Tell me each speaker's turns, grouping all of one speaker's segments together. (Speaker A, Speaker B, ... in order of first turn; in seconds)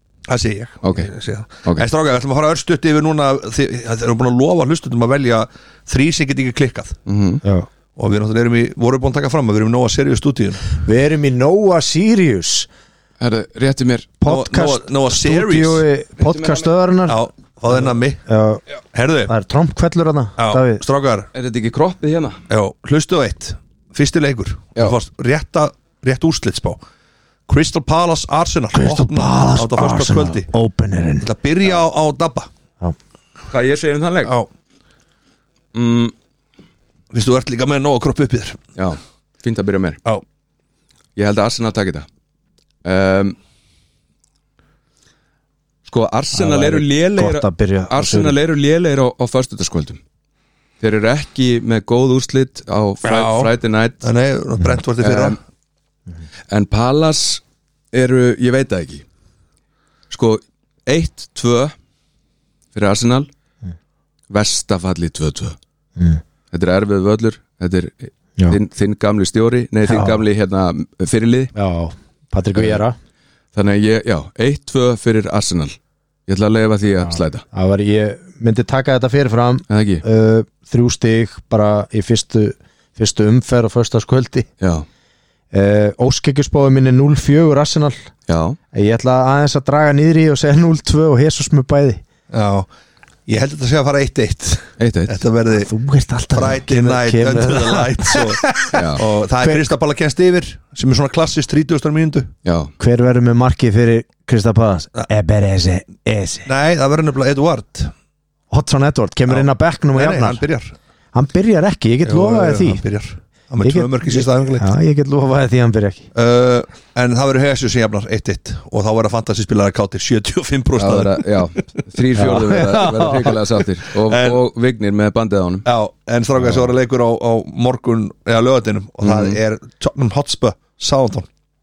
Speaker A: 0.3-7.0, 8.0-10.7, 14.2-15.8, 17.1-18.2, 18.9-19.3, 20.4-21.3, 22.5-26.8, 27.5-30.5, 31.2-32.5, 37.1-38.6, 53.0-55.4, 92.3-92.7, 93.3-95.7, 96.3-102.3, 106.5-107.9, 109.3-110.8, 112.0-114.7, 116.1-121.3, 124.0-124.4, 125.6-131.3
Speaker B: 0.8-1.1, 7.0-7.4, 13.2-14.1, 16.2-16.7, 21.3-22.4, 33.5-34.4, 35.7-36.1, 38.8-40.0, 41.1-42.0, 42.8-43.4, 45.9-50.0, 50.8-54.0, 55.0-55.4, 56.5-59.0, 60.1-61.7, 62.7-63.3, 64.3-65.5, 66.5-71.5, 72.5-72.8, 73.5-77.4, 79.7-80.0, 84.6-84.8, 88.3-88.6, 94.8-95.2, 98.7-99.0, 102.4-102.7, 120.8-125.7, 129.0-129.4
Speaker C: 7.4-7.7, 10.8-12.7, 14.2-17.2, 17.7-18.6, 19.3-20.8, 28.7-31.3, 46.3-48.3, 69.8-70.2, 71.5-73.0, 77.0-84.5, 85.5-88.1, 88.7-92.0, 95.6-99.6, 102.8-106.5, 108.5-110.4, 111.1-112.8, 113.6-116.1, 122.2-123.4